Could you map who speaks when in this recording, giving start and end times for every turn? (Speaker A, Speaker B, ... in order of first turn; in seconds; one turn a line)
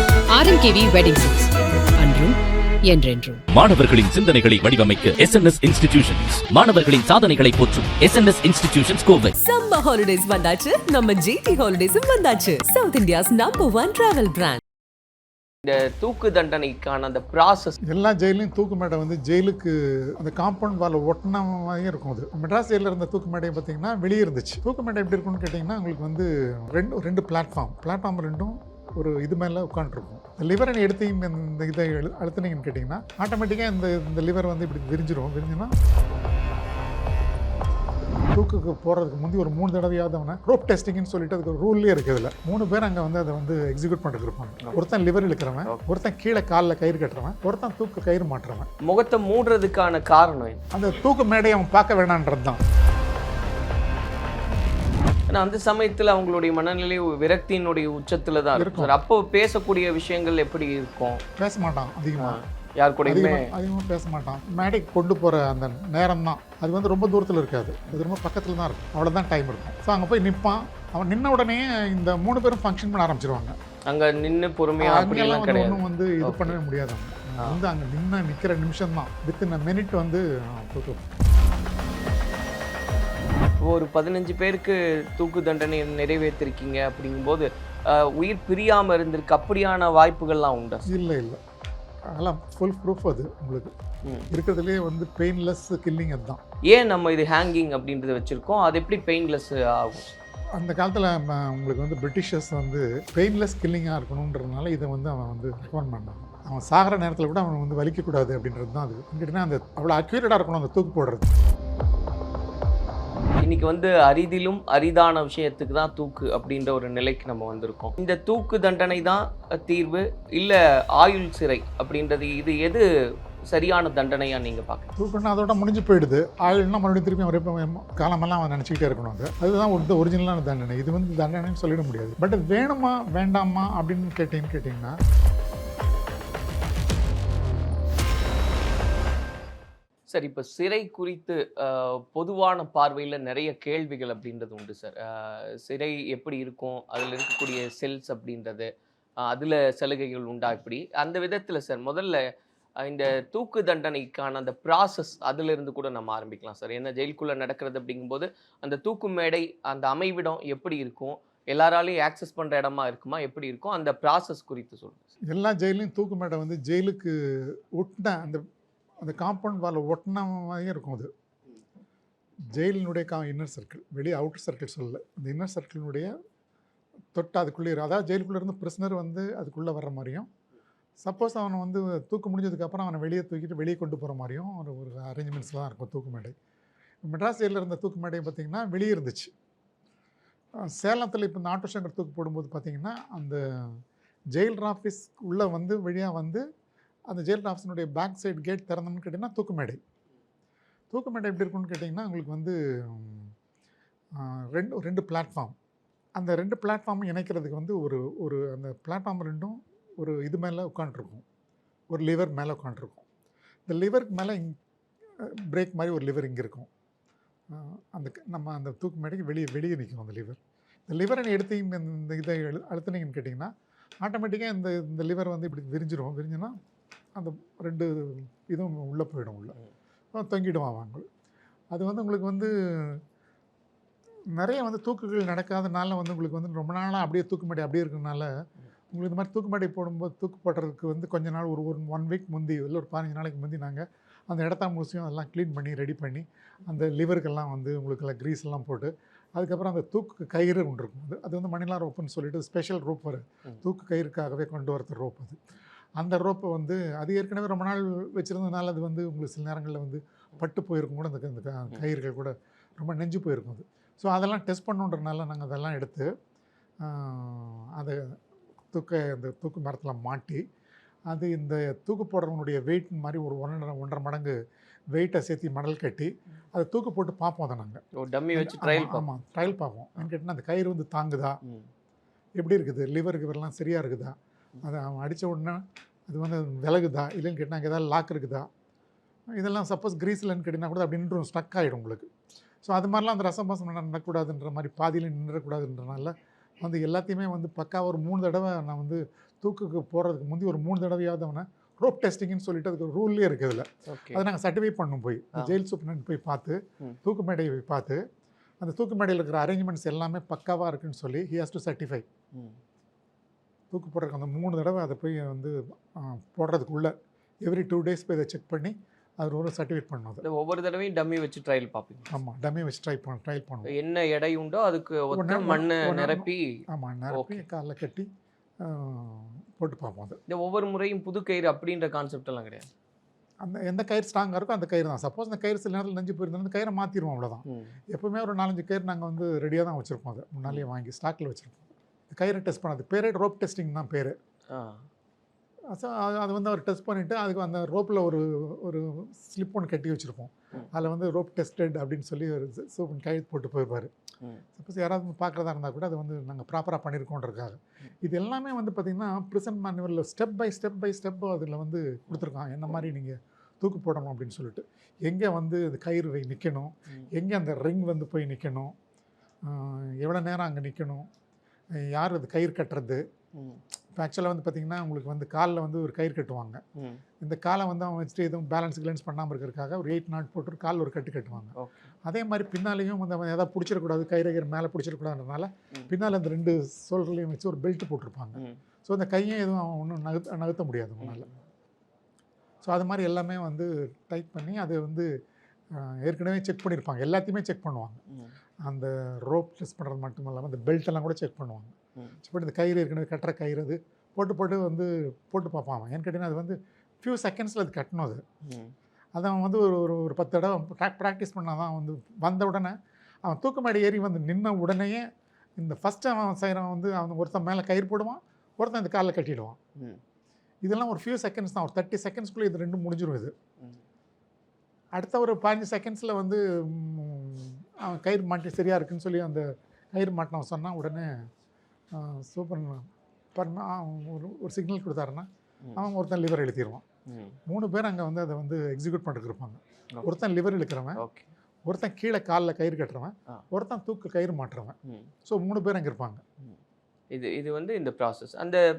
Speaker A: 0.3-0.7
Speaker B: 0.4-1.4
Speaker A: 1.3-2.4
Speaker A: 2.9-3.4
Speaker B: 2.9-3.3
Speaker C: 3.5-9.3
Speaker B: 9.3-14.6
Speaker D: 15.6-17.8
Speaker E: 17.9-35.7
Speaker E: 38.3-48.7
Speaker D: 48.8-50.6
Speaker E: 50.7-52.6
Speaker D: 55.3-61.2
Speaker E: 58.5-58.9
Speaker E: 61.4-62.4
Speaker D: 62.2-63.5
Speaker E: 63.0-73.5
Speaker D: 73.9-76.6
Speaker E: 74.8-81.1
Speaker D: 83.6-90.9
Speaker E: 90.9-91.4
Speaker E: 92.1-93.7
Speaker D: 94.0-94.3
Speaker E: 94.3-96.4
Speaker D: 96.7-100.1
Speaker E: 100.6-111.4
Speaker D: 113.4-122.8
Speaker D: 123.5-124.9
Speaker E: 125.0-134.9
Speaker D: 140.1-148.7
Speaker D: 149.2-152.2
Speaker D: 152.8-165.1
Speaker E: 165.3-168.4
Speaker E: 169.0-171.1
Speaker E: 172.5-176.1
Speaker E: 177.1-180.3
Speaker E: 181.0-186.3
Speaker E: 187.0-189.3
Speaker E: 190.6-193.8
Speaker E: 194.3-196.4
Speaker E: 197.1-199.8
Speaker E: 200.9-203.3
Speaker E: 204.2-205.5
Speaker E: 206.2-211.2
Speaker E: 211.9-213.0
Speaker E: 213.7-214.6
Speaker E: 215.2-216.7
Speaker E: 217.5-223.5
Speaker E: 224.0-226.5
Speaker E: 227.2-229.6
Speaker E: 230.1-231.0
Speaker E: 231.7-233.0
Speaker E: 234.3-238.3
Speaker E: 238.9-255.4
Speaker E: 256.0-266.1
Speaker E: 266.8-268.1
Speaker E: 268.7-270.4
Speaker E: 271.1-274.4
Speaker E: 274.9-277.8
Speaker D: 277.9-279.1
Speaker E: 278.3-281.4
Speaker E: 282.4-288.5
Speaker E: 289.4-292.1
Speaker E: 292.6-308.0
Speaker D: 303.9-304.2
Speaker E: 308.6-312.0
Speaker E: 313.7-316.9
Speaker E: 317.4-320.2
Speaker D: 320.2-322.2
Speaker E: 322.1-323.7
Speaker D: 323.6-327.4
Speaker E: 325.1-328.1
Speaker E: 328.6-330.2
Speaker D: 330.3-332.7
Speaker E: 333.4-344.1
Speaker D: 337.4-337.8
Speaker D: 344.5-344.8
Speaker E: 345.7-353.9
Speaker E: 354.6-368.7
Speaker E: 369.4-371.1
Speaker E: 371.8-373.0
Speaker E: 373.9-376.6
Speaker D: 376.8-377.0
Speaker E: 377.2-391.3
Speaker D: 381.5-381.9
Speaker D: 391.0-391.3
Speaker E: 392.6-395.1
Speaker E: 395.7-398.0
Speaker E: 398.6-408.2
Speaker D: 408.4-408.7
Speaker E: 409.1-415.0
Speaker E: 415.6-419.6
Speaker E: 420.6-423.3
Speaker E: 424.9-431.1
Speaker E: 431.9-436.8
Speaker D: 437.1-437.4
Speaker E: 437.5-441.0
Speaker D: 440.9-441.3
Speaker E: 441.6-446.2
Speaker D: 447.1-448.6